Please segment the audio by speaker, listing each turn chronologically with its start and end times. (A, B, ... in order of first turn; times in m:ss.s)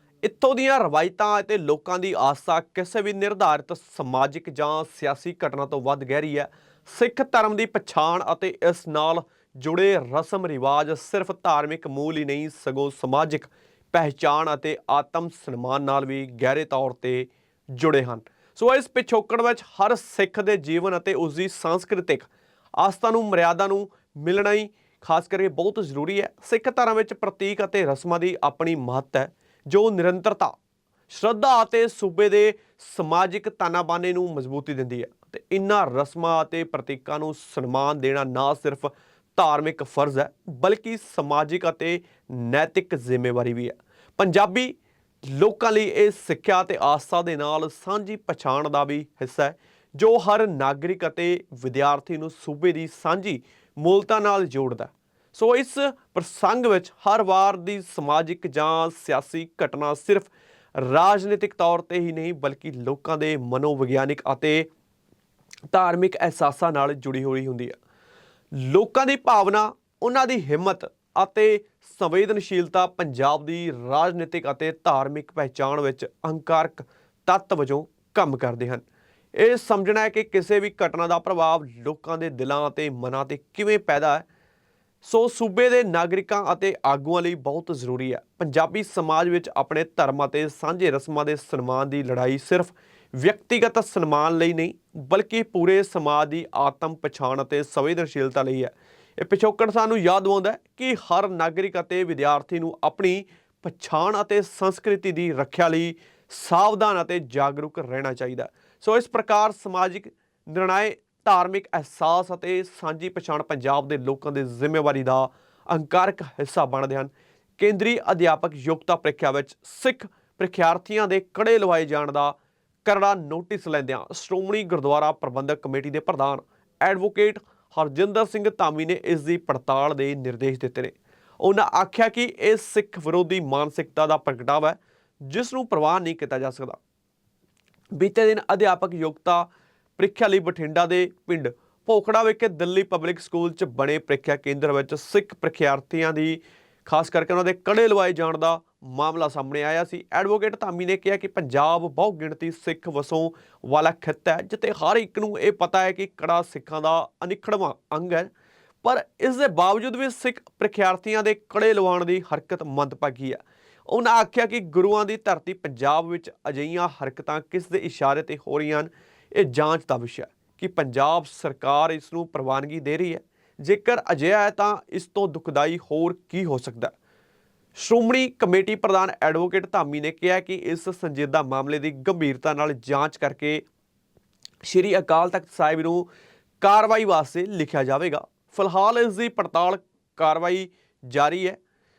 0:00.2-0:30.5 A
0:31.1-0:44.8 A
0:45.3-1:04.7 A
1:05.7-1:07.8 A
1:08.6-1:18.8 A
1:19.4-1:24.3 A
1:25.0-2:16.8 A
2:18.0-2:19.5 A
2:20.0-2:38.3 A
2:38.8-2:56.9 A
2:57.8-3:03.6 A
3:04.6-3:06.1 A
3:06.6-3:11.6 A